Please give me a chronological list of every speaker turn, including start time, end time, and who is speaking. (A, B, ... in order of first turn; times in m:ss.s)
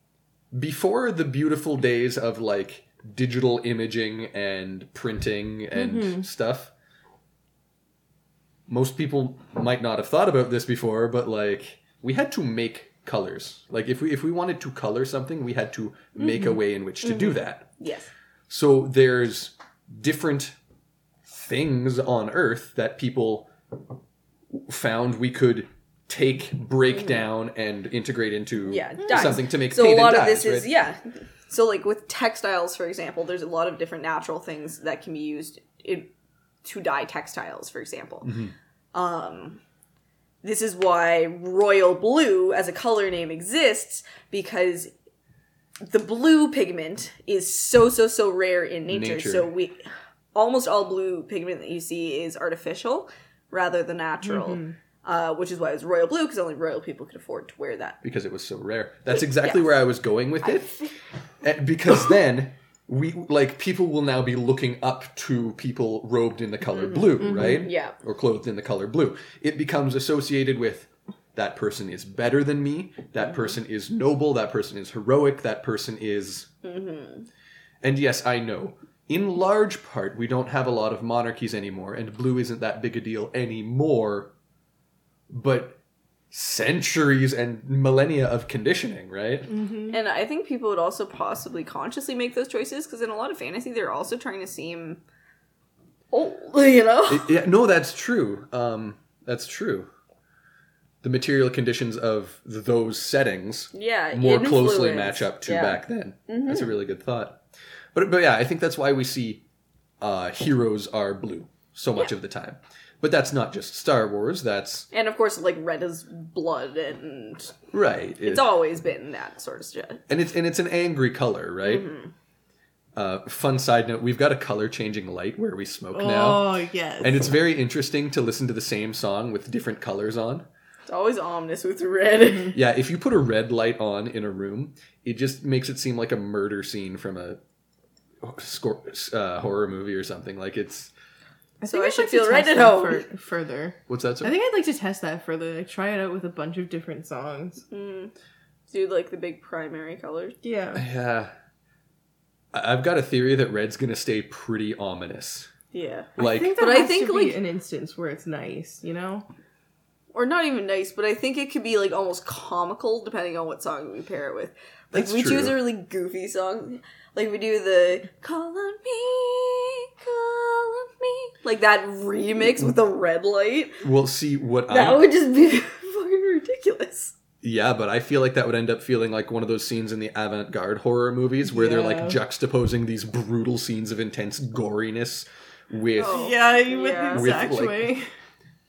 0:00.5-0:06.7 A
0:05.7-0:06.2 B
0:08.7-0:17.7 A
0:17.0-0:18.1 C
0:18.5-0:20.5 A
0:21.2-0:23.5 A
0:24.5-0:30.7 A
0:28.6-0:36.1 C
0:36.6-0:38.3 C
0:38.2-0:38.5 A
0:38.9-0:39.6 C
0:40.4-0:44.9 C
0:45.8-0:49.8 C
0:48.9-0:49.5 A
0:50.3-0:58.0 C
0:54.2-0:54.7 B
0:58.0-1:00.7 A
0:59.4-0:59.8 C
1:00.4-1:00.9 C
1:01.4-1:16.5 A
1:06.7-1:07.9 C
1:07.2-1:07.7 B
1:16.6-1:17.3 C
1:17.8-1:24.3 A
1:25.3-1:25.8 A
1:26.3-1:29.5 A
1:29.5-1:30.0 B
1:29.9-1:35.0 C
1:36.1-1:37.3 C
1:37.1-1:39.9 A
1:41.0-1:47.4 A
1:43.7-1:46.7 C
1:47.9-1:49.4 A
1:50.0-1:54.9 A
1:54.9-1:57.6 C
1:57.7-1:58.5 A
1:58.2-2:00.0 C
2:00.1-2:01.8 A
2:01.6-2:02.1 C
2:02.9-2:10.5 A
2:05.9-2:07.3 B
2:10.9-2:12.6 C
2:12.5-2:17.4 A
2:18.2-2:20.9 A
2:21.6-2:27.6 B
2:21.7-2:23.0 C
2:23.9-2:24.3 A
2:27.7-2:28.1 C
2:28.7-2:30.4 C
2:30.4-2:30.8 B
2:30.7-2:31.3 A
2:32.5-2:35.5 A
2:35.7-2:37.4 C
2:36.2-2:36.6 A
2:36.2-2:39.2 B
2:40.1-2:53.8 C
2:44.9-2:45.6 A
2:53.8-2:55.1 A
2:54.7-2:57.1 C
2:57.4-3:06.3 A
3:01.4-3:02.2 B
3:06.0-3:07.3 C
3:06.1-3:08.0 B
3:07.1-3:07.9 A